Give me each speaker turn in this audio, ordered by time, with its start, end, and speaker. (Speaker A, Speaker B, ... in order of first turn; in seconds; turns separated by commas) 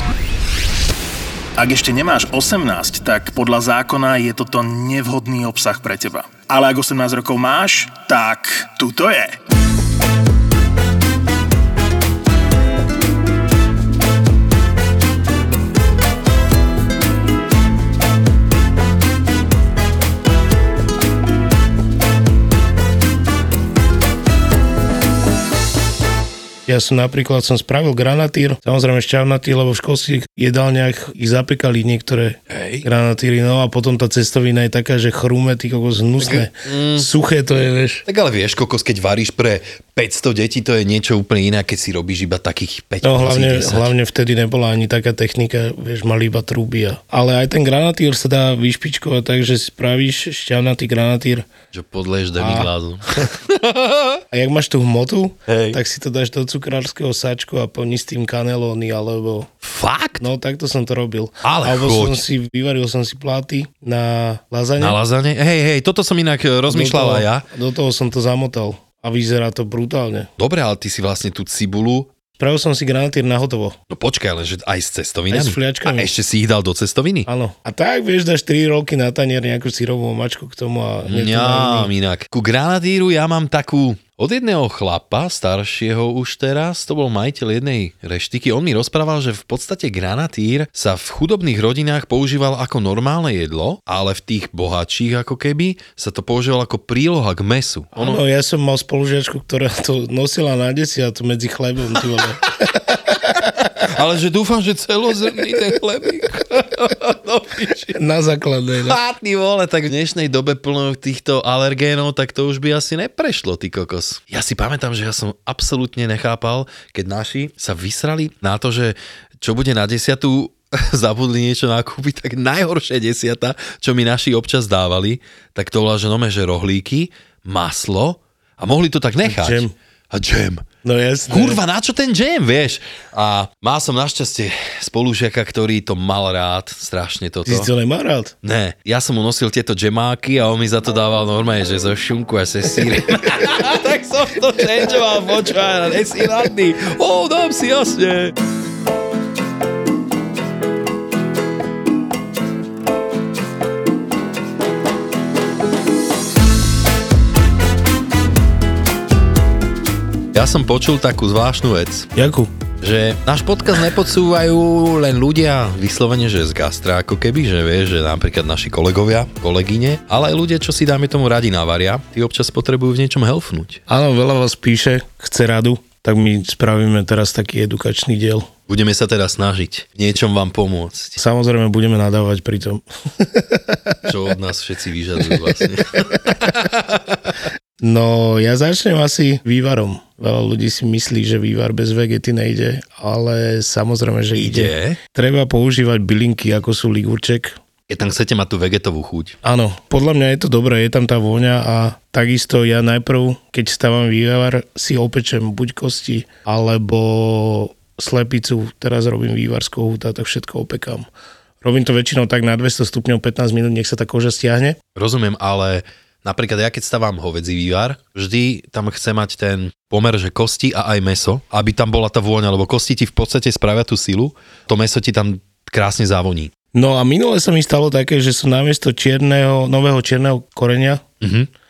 Speaker A: 1.6-9.4, Speaker B: 26.7-38.0, Speaker C: 32.5-32.9, Speaker C: 36.2-37.1, Speaker C: 38.1-43.9, Speaker B: 43.0-51.5, Speaker C: 51.7-54.2, Speaker B: 52.4-53.3, Speaker B: 54.3-59.5, Speaker C: 55.5-55.8, Speaker C: 59.6-60.3, Speaker B: 60.2-65.0, Speaker C: 61.4-62.2, Speaker C: 64.8-67.5, Speaker B: 66.7-70.3, Speaker C: 70.4-72.1, Speaker B: 72.4-73.8, Speaker C: 73.9-77.3, Speaker B: 75.3-76.1, Speaker B: 77.3-81.9, Speaker C: 81.1-98.2, Speaker B: 98.0-103.4, Speaker C: 103.8-108.0, Speaker B: 107.9-109.0, Speaker C: 108.8-130.7, Speaker B: 129.2-129.7, Speaker B: 130.8-131.6, Speaker C: 131.3-137.7, Speaker B: 137.4-138.3, Speaker C: 138.4-148.4, Speaker C: 160.3-162.1, Speaker B: 162.2-162.5, Speaker C: 162.8-173.8, Speaker B: 173.9-178.5, Speaker C: 178.7-181.2, Speaker B: 181.2-184.1, Speaker C: 184.1-187.2, Speaker B: 187.8-197.6, Speaker C: 194.3-195.0, Speaker C: 197.9-199.4, Speaker B: 199.4-211.1, Speaker B: 211.6-214.8, Speaker C: 214.9-226.5, Speaker B: 226.7-231.0, Speaker C: 231.2-231.5